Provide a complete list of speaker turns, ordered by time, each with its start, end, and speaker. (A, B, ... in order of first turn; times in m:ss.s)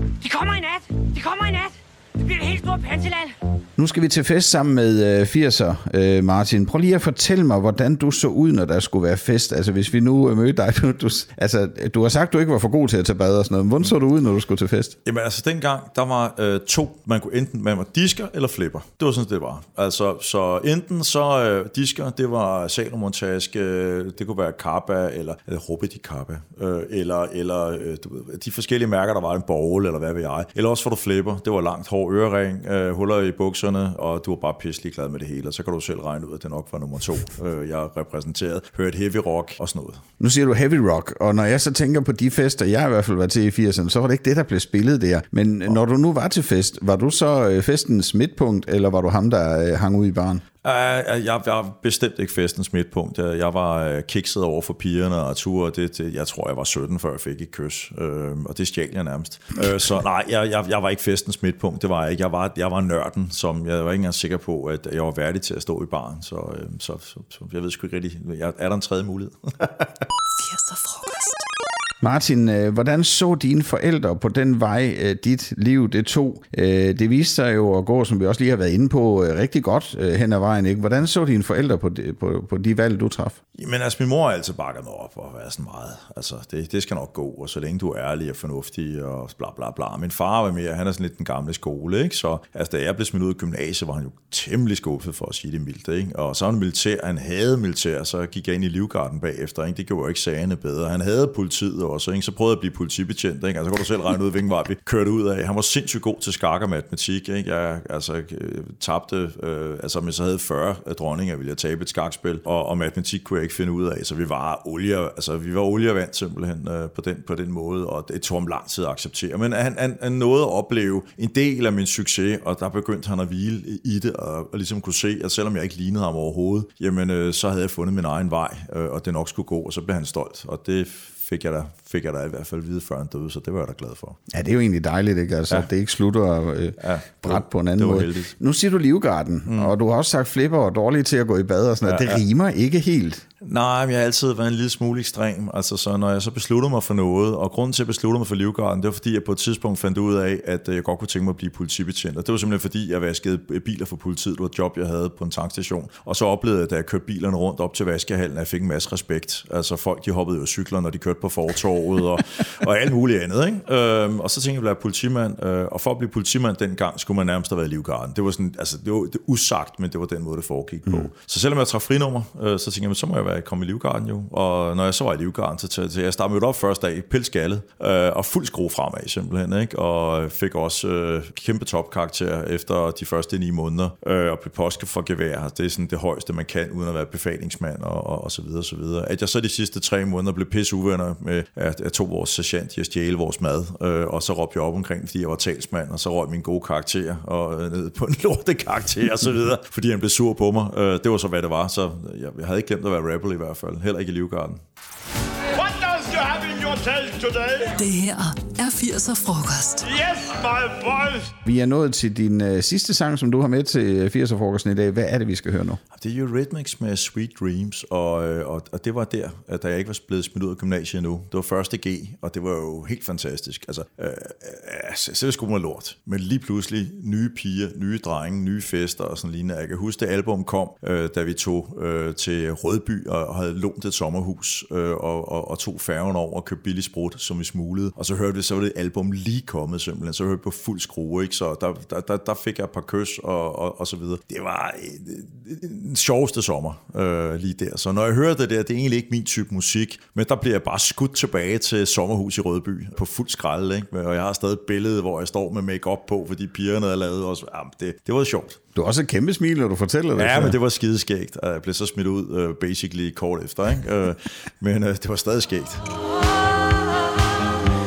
0:00.2-0:03.3 A
0:03.8-0:15.0 B
0:15.0-0:40.0 C
0:40.2-0:50.4 B
0:50.6-1:09.9 C
1:10.3-1:11.4 D
1:12.0-1:23.4 B
1:23.6-2:14.2 C
2:14.3-2:23.2 B
2:16.8-2:18.3 C
2:19.5-2:19.8 C
2:21.8-2:22.2 C
2:23.4-3:24.6 C
3:25.8-3:27.6 E
3:27.8-3:29.9 D
3:30.0-3:31.1 E
3:31.4-3:35.8 B
3:35.9-4:18.6 C
4:18.8-4:20.6 B
4:20.2-4:25.8 C
4:26.2-4:27.6 A